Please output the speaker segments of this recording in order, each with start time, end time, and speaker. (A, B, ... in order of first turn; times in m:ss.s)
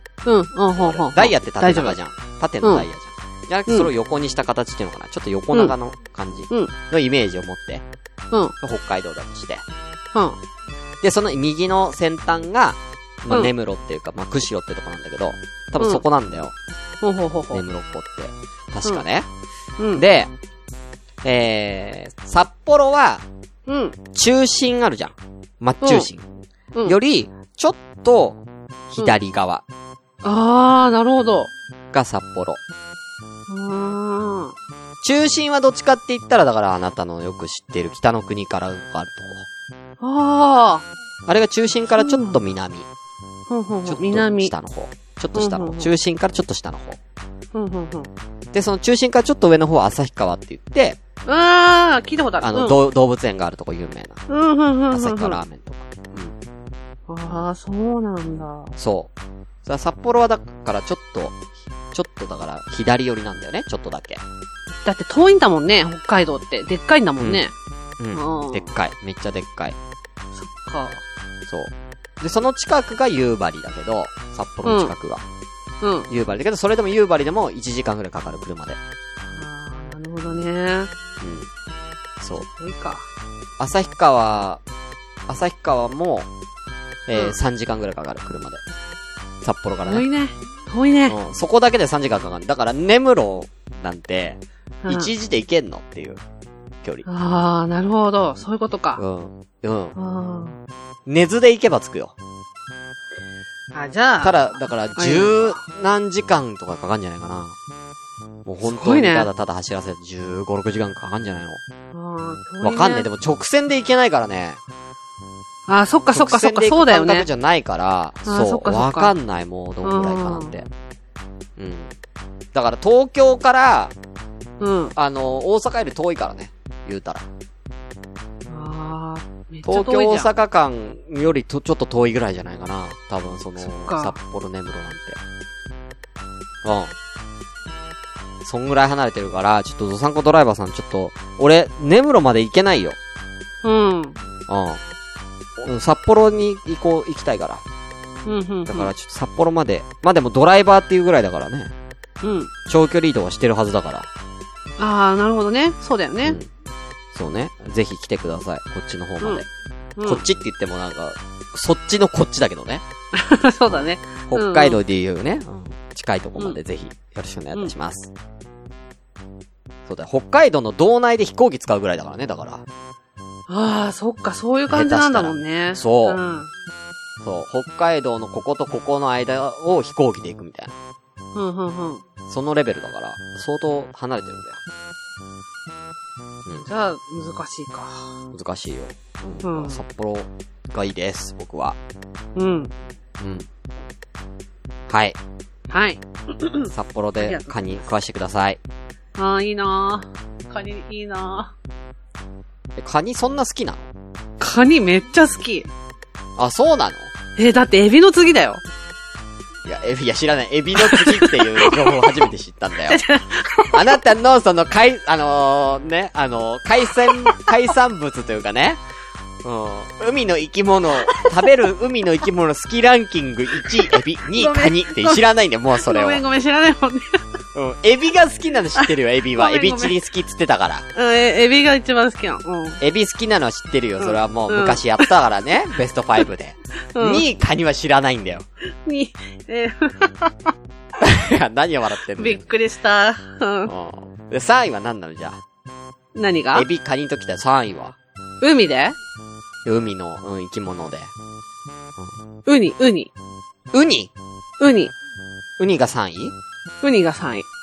0:00.2-0:02.0 A
0:00.7-0:07.8 B
0:08.6-0:09.6 B
0:11.0-0:16.5 B
0:15.8-0:16.0 A
0:17.0-0:17.6 A
0:17.5-0:19.3 B
0:19.8-0:20.0 A
0:19.9-0:20.3 B
0:21.2-0:23.2 B
0:23.7-0:24.0 A
0:24.1-0:26.2 B
0:25.8-0:26.1 A
0:26.9-0:29.6 B
0:30.2-0:31.5 A
0:31.9-0:32.6 B
0:33.5-0:34.6 A
0:35.0-0:39.5 B
0:40.0-0:40.9 A
0:41.3-0:42.9 B
0:41.9-0:42.4 A
0:43.5-0:44.5 A
0:43.9-0:47.0 B
0:45.4-0:45.9 A
0:47.5-0:48.1 A
0:48.5-0:51.0 B
0:51.3-0:52.8 A
0:52.4-0:54.2 B
0:54.3-0:55.4 A
0:54.9-0:56.4 B
0:57.1-0:58.7 A
0:58.8-0:59.1 B
0:59.6-1:01.4 B
1:01.9-1:04.2 B
1:04.8-1:07.5 A
1:07.2-1:07.5 B
1:08.0-1:09.8 B
1:08.1-1:08.7 A
1:10.4-1:11.0 A
1:11.5-1:15.2 B
1:14.7-1:14.9 A
1:15.8-1:16.1 A
1:16.1-1:18.8 B
1:19.2-1:20.9 A
1:21.2-1:21.5 B
1:22.2-1:22.5 B
1:22.5-1:23.1 A
1:23.6-1:24.6 B
1:25.3-1:26.3 B
1:27.1-1:28.6 B
1:29.4-1:30.1 B
1:29.8-1:31.2 A
1:31.1-1:36.2 B
1:34.8-1:35.1 A
1:37.1-1:39.0 A
1:39.0-1:40.0 B
1:40.0-1:40.6 A
1:41.1-1:42.2 B
1:43.7-1:45.6 A
1:44.2-1:47.6 B
1:48.4-1:51.6 B
1:48.6-1:49.3 A
1:51.9-1:53.1 A
1:52.6-1:54.6 B
1:55.7-1:57.3 A
1:56.1-2:00.7 B
1:58.3-1:59.1 A
1:59.8-2:00.6 A
2:01.6-2:01.9 B
2:02.5-2:03.9 B
2:04.6-2:04.9 A
2:05.0-2:07.3 B
2:08.5-2:10.3 A
2:09.6-2:15.2 B
2:13.6-2:14.2 A
2:16.6-2:16.9 B
2:18.4-2:23.0 B
2:23.6-2:24.2 A
2:24.5-2:24.8 B
2:25.6-2:27.6 B
2:28.3-2:28.9 A
2:28.7-2:31.7 B
2:32.2-2:32.5 A
2:32.7-2:34.1 B
2:34.8-2:36.4 A
2:37.1-2:39.5 B
2:40.0-2:40.2 A
2:40.0-2:42.8 B
2:43.1-2:44.8 A
2:43.7-2:48.1 B
2:49.9-2:52.6 B
2:53.5-2:56.5 A
2:54.7-2:56.2 B
2:57.2-3:00.8 B
3:01.4-3:02.0 A
3:02.3-3:04.6 B
3:06.6-3:08.2 A
3:08.3-3:11.8 B
3:09.4-3:09.8 A
3:12.4-3:12.7 A
3:13.2-3:13.5 B
3:14.9-3:15.2 B
3:15.7-3:17.5 A
3:16.7-3:18.6 B
3:19.2-3:21.5 A
3:22.8-3:23.9 B
3:24.4-3:25.7 A
3:26.4-3:27.1 B
3:27.4-3:28.6 A
3:29.6-3:33.0 B
3:30.8-3:32.2 A
3:32.9-3:34.0 A
3:33.7-3:38.8 B
3:37.1-3:37.5 A
3:39.4-3:46.2 B
3:43.9-3:47.2 A
3:47.6-3:50.9 B
3:48.8-3:50.0 A
3:50.9-3:52.8 A
3:52.8-3:58.5 B
3:54.0-3:55.1 A
3:57.0-3:57.2 A
3:58.8-4:00.5 A
4:01.0-4:02.5 B
4:02.2-4:03.7 A
4:03.7-4:05.4 B
4:06.2-4:06.7 A
4:06.5-4:08.0 B
4:08.4-4:09.0 A
4:09.6-4:11.1 B
4:12.5-4:13.1 A
4:13.7-4:14.1 B
4:14.6-4:14.9 A
4:15.6-4:16.4 B
4:16.8-4:17.5 A